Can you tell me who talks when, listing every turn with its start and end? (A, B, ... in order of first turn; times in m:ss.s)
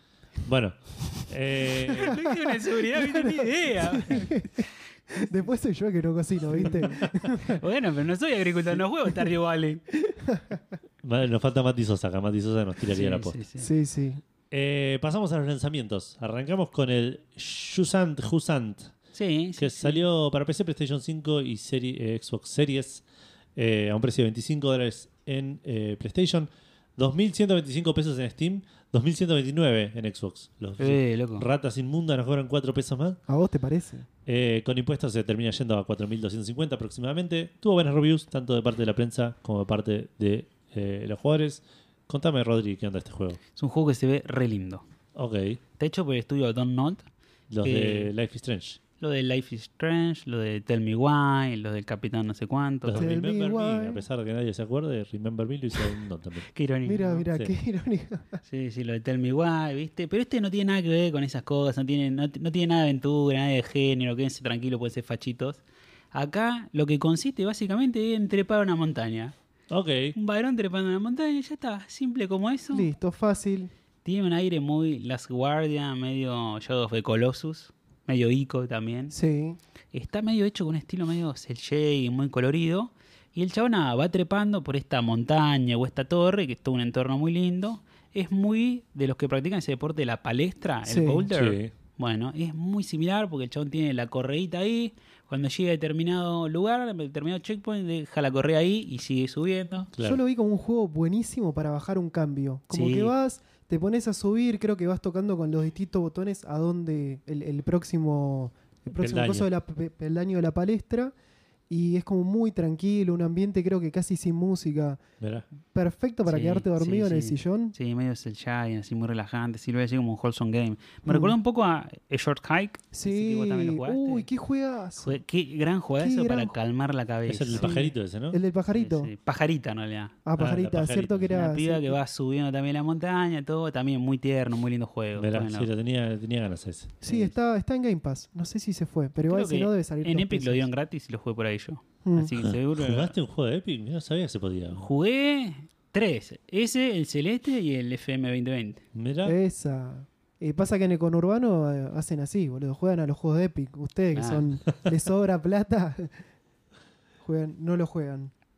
0:00.4-0:02.1 A
0:01.9-0:04.5 B
0:02.1-0:07.6 C
0:06.5-0:06.9 B
0:06.7-0:06.9 A
0:07.5-0:09.8 B
0:10.0-0:10.6 C
0:11.0-0:13.4 A
0:12.9-0:13.7 B
0:13.6-0:14.2 C
0:14.5-0:18.9 A
0:19.1-0:20.0 B
0:19.6-0:23.0 A
0:23.6-0:33.2 A
0:30.8-0:31.4 B
0:33.3-0:34.0 C
0:34.2-0:43.4 A
0:43.6-0:44.8 B
0:45.1-0:45.6 A
0:45.8-0:47.0 B
0:47.5-0:48.8 A
0:47.6-0:48.1 B
0:49.0-0:53.1 B
0:52.8-0:56.5 A
0:52.9-0:54.0 C
0:56.5-0:57.2 B
0:56.8-0:58.4 C
0:58.4-1:05.6 B
1:06.1-1:09.3 B
1:09.7-1:10.1 A
1:10.1-1:12.9 B
1:12.7-1:13.7 C
1:14.0-1:19.1 B
1:19.1-1:19.6 C
1:19.9-1:39.9 B
1:30.8-1:31.3 C
1:31.3-1:31.7 A
1:39.9-1:40.2 A
1:40.0-1:51.1 C
1:42.7-1:43.1 B
1:48.9-1:49.5 A
1:51.7-1:55.0 C
1:55.2-1:55.5 A
1:55.6-1:57.7 C
1:56.2-2:04.2 B
2:01.1-2:01.3 C
2:02.9-2:05.2 C
2:05.0-2:07.7 B
2:06.0-2:06.5 C
2:07.3-2:08.4 A
2:07.5-2:09.1 C
2:08.7-2:10.2 B
2:10.2-2:12.0 C
2:10.4-2:11.3 A
2:11.3-2:15.7 B
2:15.2-2:17.1 A
2:17.0-2:20.7 C
2:19.2-2:23.1 B
2:22.0-2:22.3 C
2:22.4-2:24.8 A
2:24.7-2:28.8 B
2:28.9-2:29.4 A
2:29.2-2:36.2 C
2:34.1-2:34.4 B
2:37.2-2:38.3 C